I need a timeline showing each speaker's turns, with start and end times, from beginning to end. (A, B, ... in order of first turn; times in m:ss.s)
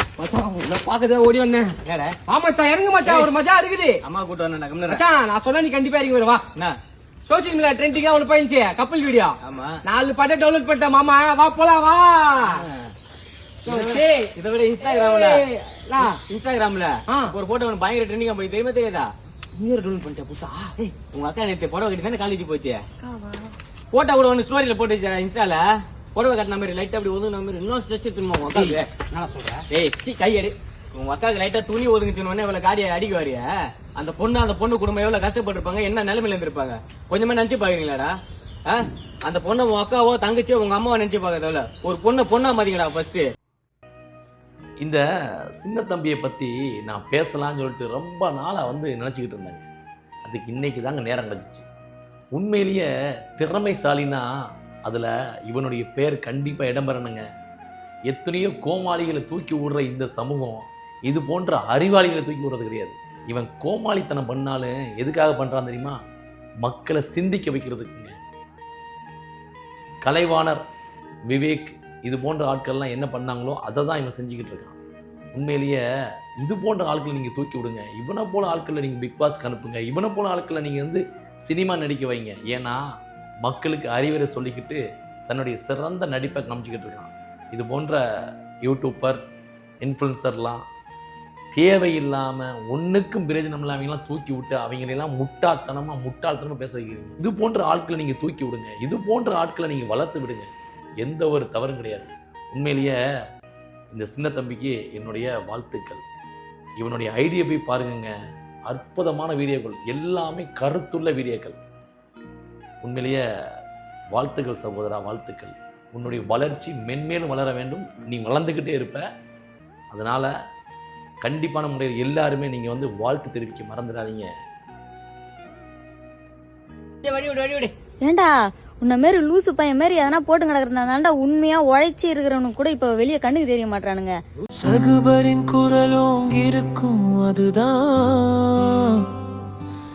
0:00.2-0:04.0 A
0:01.8-0:02.2 B
0:04.0-0:05.0 B
0:04.9-0:06.4 A
0:07.3-0:09.4 A
0:09.4-0:09.8 B
0:09.9-0:12.5 A
0:12.4-0:12.9 B
0:13.7-0:19.1 B
0:13.7-0:14.3 A
0:14.9-0:16.1 A
0:19.6-0:20.4 A
0:19.8-0:22.8 B
0:23.1-0:23.5 A
0:23.9-0:28.9 B
0:29.1-0:29.6 A
0:29.7-0:38.2 B
0:38.7-0:43.3 B
0:45.6-0:49.7 C
0:50.2-0:51.6 C
0:52.4-0:54.3 C
0:54.8-0:57.2 C
0:58.1-1:06.0 C
1:06.6-1:08.1 C
1:10.0-1:10.6 C
1:11.3-1:14.8 C
1:15.3-1:15.8 C
1:16.4-1:22.8 C
1:23.4-1:28.0 C
1:28.6-1:29.2 C
1:29.8-1:30.6 C
1:31.5-1:40.5 C
1:41.0-1:42.9 C
1:43.9-1:46.0 C
1:46.8-1:48.1 C
1:48.7-1:51.6 C
1:52.8-1:53.2 C
1:54.1-1:59.0 C
1:59.9-2:00.3 C
2:01.2-2:04.3 C
2:07.0-2:07.7 B
2:08.0-2:14.2 D
2:14.6-2:19.1 E